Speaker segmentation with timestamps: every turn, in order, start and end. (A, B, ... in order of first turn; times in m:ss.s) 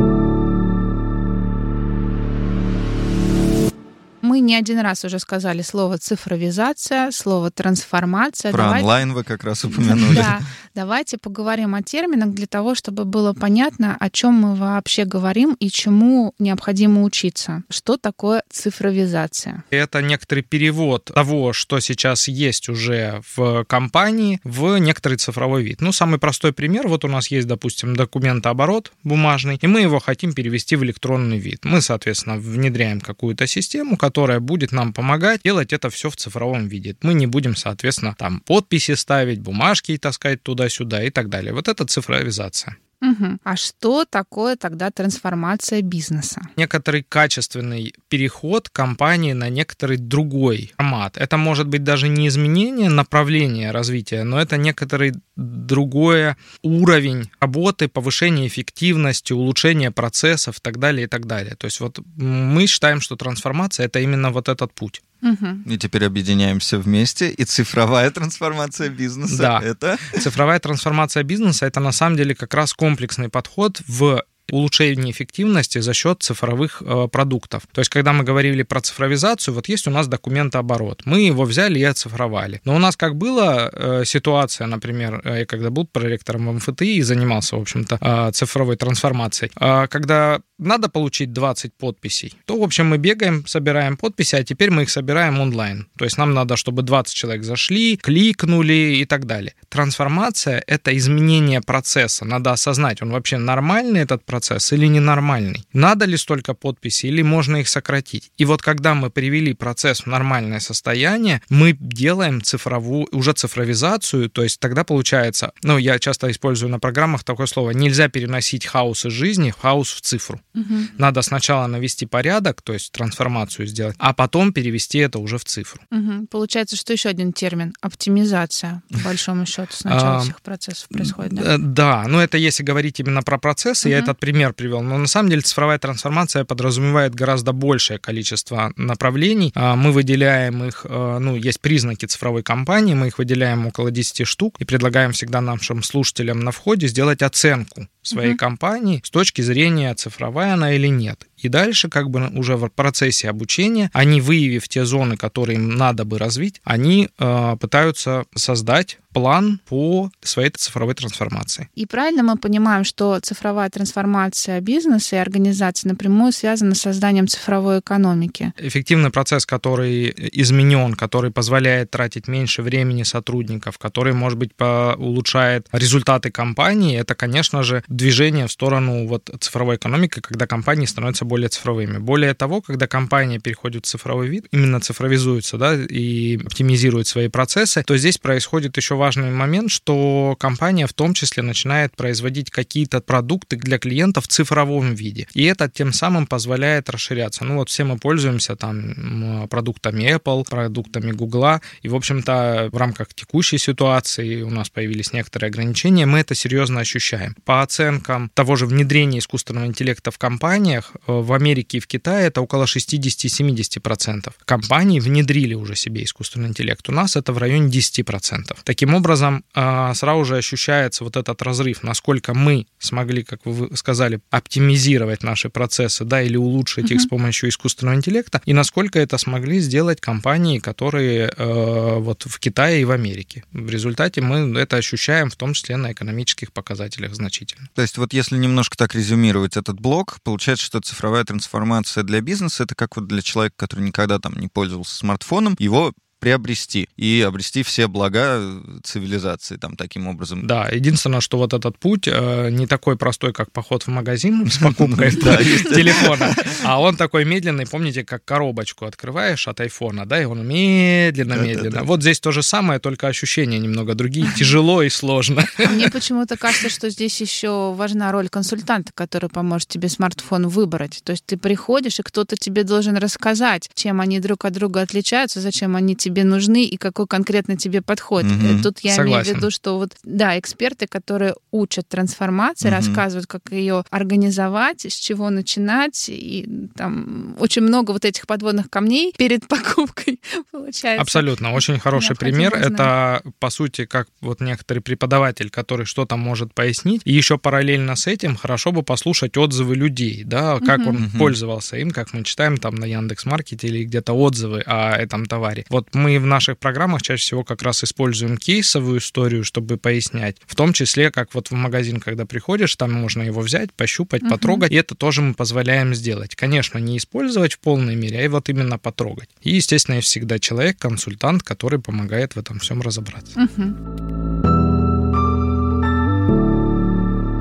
0:04.2-0:08.9 A
0:08.5-0:10.4 B
0:09.7-0:19.6 A
0:19.7-0:42.8 C
0:43.0-0:46.5 A
0:46.6-1:05.0 C
1:05.2-1:05.6 A
1:05.6-1:10.2 B
1:09.3-2:00.4 C
2:00.6-2:00.9 A
2:01.0-2:05.8 C
2:05.9-2:11.5 A
2:09.9-2:10.3 C
2:10.9-2:41.7 C
2:13.8-2:14.1 A
2:28.1-2:28.4 A
2:41.8-2:48.5 A
2:48.6-3:57.7 C
3:46.8-3:47.1 A
3:57.8-4:10.4 B
4:10.4-4:25.9 C
4:14.5-4:16.6 B
4:21.3-4:21.8 B
4:24.2-4:24.5 A
4:25.6-4:52.9 A
4:38.2-4:38.7 B
4:38.9-4:39.5 C
4:42.6-4:43.0 B
4:51.0-5:23.4 C
5:00.6-5:01.0 A
5:01.0-5:01.4 B
5:14.2-5:14.6 A
5:23.4-5:23.8 A